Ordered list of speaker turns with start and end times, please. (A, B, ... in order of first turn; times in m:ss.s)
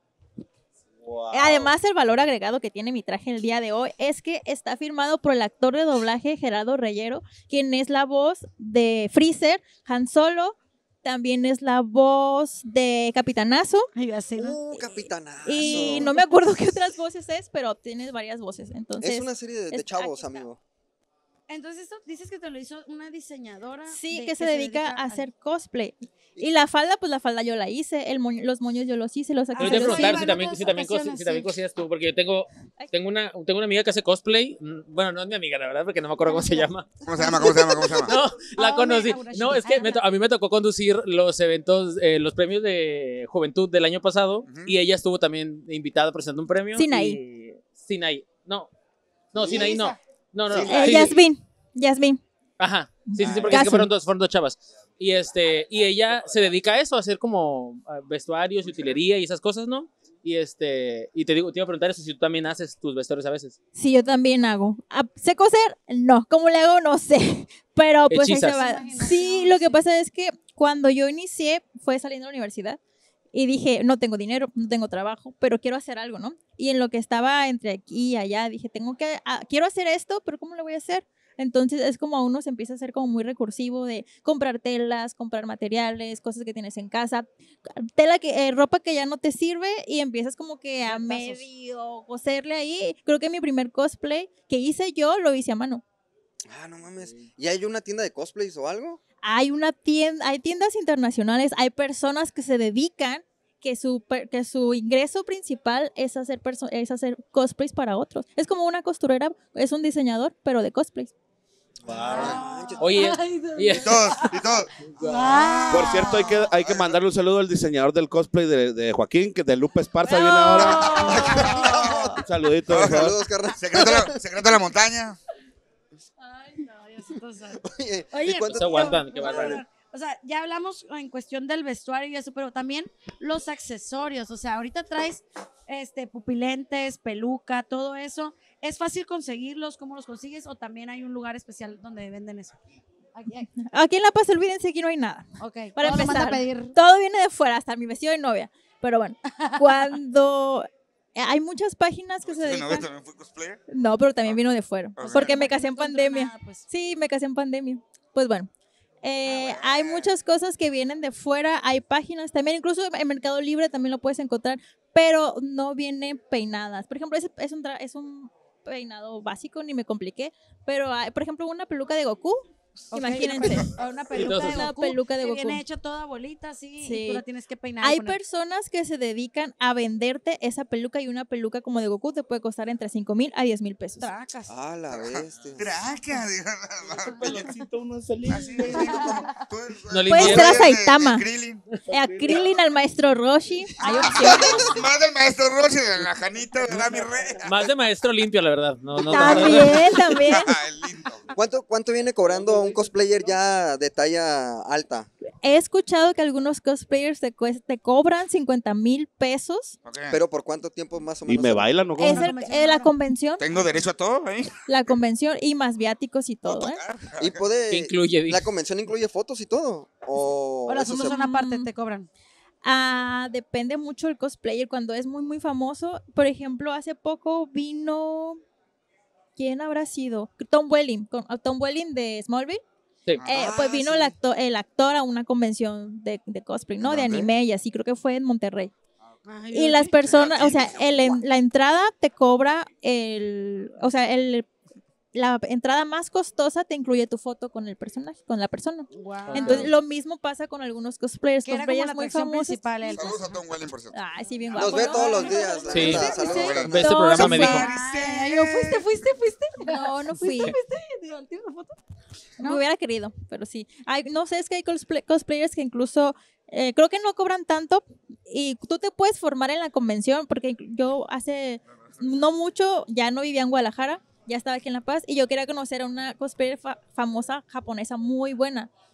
0:00.9-0:01.7 A
0:01.3-0:13.9 B
0:14.0-0:16.3 C
0:14.4-0:16.2 D
0:15.4-0:20.4 B
0:19.0-0:20.6 D
0:21.5-0:25.3 C
0:23.9-0:30.2 B
0:29.6-0:31.5 C
0:29.6-0:48.7 E
0:36.2-0:40.0 C
0:37.0-0:38.1 F
0:44.4-0:44.7 F
0:46.7-0:47.2 B
0:49.3-0:51.2 E
0:49.4-0:50.0 C
0:50.5-0:51.1 F
0:50.7-0:52.2 B
0:52.6-1:03.6 E
0:53.1-0:53.9 B
0:53.2-0:53.6 F
1:03.8-1:12.8 B
1:08.1-1:08.6 E
1:08.3-1:09.8 C
1:13.3-1:35.8 B
1:30.8-1:31.4 C
1:36.5-1:39.0 D
1:39.2-1:51.1 B
1:51.8-1:53.1 D
1:51.8-1:54.1 E
1:51.9-1:56.5 C
1:53.8-1:54.7 F
1:54.8-1:55.4 E
1:55.4-1:57.0 F
1:55.7-2:01.1 A
2:00.1-2:02.2 C
2:00.6-2:02.1 F
2:02.2-2:03.2 A
2:02.7-2:05.2 F
2:02.7-2:04.1 D
2:06.2-2:22.6 C
2:07.6-2:09.6 D
2:08.4-2:09.6 E
2:23.1-2:23.5 C
2:23.6-2:32.9 B
2:25.4-2:26.7 C
2:29.4-2:30.0 C
2:32.2-2:33.6 F
2:33.7-2:38.5 B
2:35.0-2:35.4 F
2:35.0-2:36.6 C
2:39.0-2:55.6 B
2:39.2-2:40.1 F
2:52.9-2:58.2 C
2:54.1-2:54.7 E
2:56.8-2:57.2 B
2:57.8-3:04.1 B
3:04.0-3:04.5 C
3:04.5-3:05.7 D
3:04.9-3:07.5 F
3:06.8-3:09.0 A
3:08.3-3:11.6 F
3:08.8-3:09.4 C
3:09.9-3:10.6 E
3:10.1-3:11.2 B
3:11.8-3:12.5 A
3:11.9-3:14.6 B
3:13.8-3:17.5 F
3:13.8-3:14.8 D
3:16.6-3:17.4 A
3:17.4-3:20.1 E
3:19.1-3:20.5 B
3:19.2-3:19.6 F
3:20.2-3:21.3 F
3:21.3-3:25.1 D
3:22.2-3:22.9 A
3:25.4-3:29.8 B
3:29.8-3:30.2 F
3:30.1-3:31.7 D
3:31.2-3:32.3 A
3:32.0-3:32.9 C
3:32.0-3:33.4 B
3:33.4-3:34.6 F
3:34.7-3:36.8 B
3:36.4-3:37.4 F
3:37.2-3:41.1 D
3:37.7-3:38.5 E
3:40.6-3:42.1 C
3:41.0-3:41.7 B
3:42.6-3:48.4 B
3:49.4-3:52.6 B
3:53.2-3:53.6 F
3:53.2-3:58.7 B
3:53.3-3:54.1 D
3:56.8-3:57.3 F
3:59.2-4:00.0 C
3:59.5-4:04.5 B
4:00.0-4:01.2 F
4:05.1-4:12.6 B
4:08.9-4:09.6 C
4:09.3-4:09.7 E
4:11.4-4:13.4 C
4:12.9-4:14.0 F
4:13.9-4:17.7 B
4:14.6-4:17.2 D
4:14.6-4:16.4 C
4:15.7-4:17.7 E
4:16.2-4:18.8 F
4:17.4-4:21.8 C
4:19.6-4:20.6 B
4:22.4-4:22.6 C
4:22.4-4:38.7 B
4:31.8-4:32.2 F